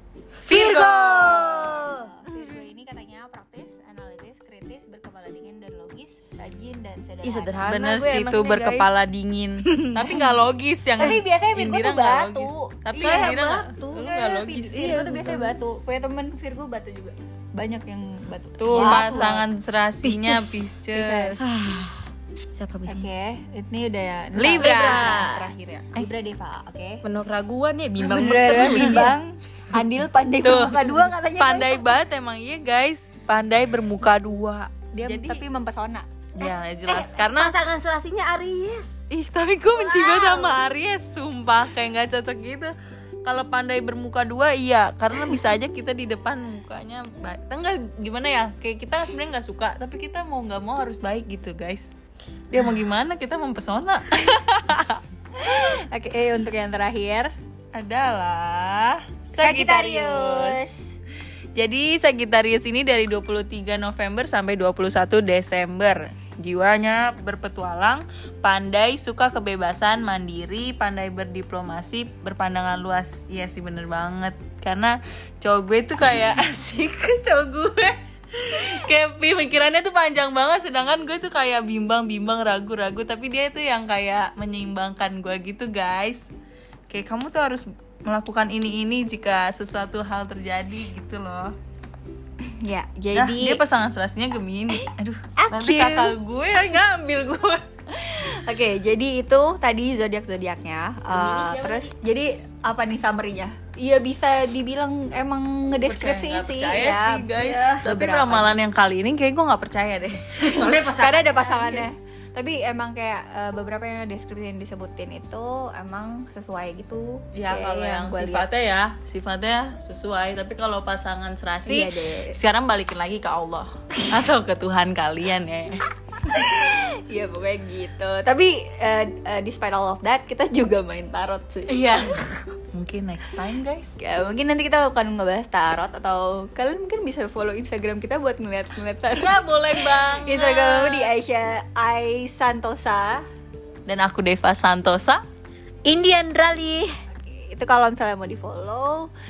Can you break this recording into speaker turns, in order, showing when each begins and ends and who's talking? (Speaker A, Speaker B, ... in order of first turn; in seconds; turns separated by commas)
Speaker A: 0.4-2.1, Speaker B: 0.5-1.4, Speaker C: 0.5-7.7, Speaker A: 7.2-9.0, Speaker B: 7.6-14.9, Speaker A: 9.6-10.0, Speaker C: 11.0-19.5, Speaker A: 13.0-14.1, Speaker A: 14.7-15.7, Speaker B: 18.6-21.4, Speaker A: 18.7-19.4, Speaker A: 20.0-20.7, Speaker C: 20.9-21.4, Speaker A: 21.4-23.1, Speaker C: 22.9-27.0, Speaker B: 24.4-26.1, Speaker A: 24.5-25.4, Speaker A: 27.0-29.1, Speaker C: 28.0-32.0, Speaker B: 28.4-29.0, Speaker B: 30.4-35.4, Speaker C: 34.9-36.1, Speaker B: 36.3-37.6, Speaker A: 36.9-39.0, Speaker B: 39.1-51.9, Speaker A: 39.8-40.5, Speaker B: 52.5-55.0, Speaker C: 55.4-57.3, Speaker B: 57.7-60.6, Speaker C: 59.4-60.8, Speaker B: 61.5-86.3, Speaker B: 86.9-91.5, Speaker C: 92.6-93.6, Speaker B: 93.1-97.6, Speaker C: 95.4-96.2, Speaker C: 97.9-108.5, Speaker A: 101.1-101.9, Speaker B: 105.8-110.8, Speaker A: 107.4-107.8, Speaker A: 110.5-111.9, Speaker C: 110.8-118.5, Speaker B: 117.3-125.9, Speaker C: 121.7-122.3, Speaker C: 126.2-132.2, Speaker B: 131.7-133.9, Speaker C: 134.0-143.2, Speaker B: 139.1-141.1, Speaker B: 143.9-145.2, Speaker A: 145.8-146.9, Speaker C: 147.1-149.1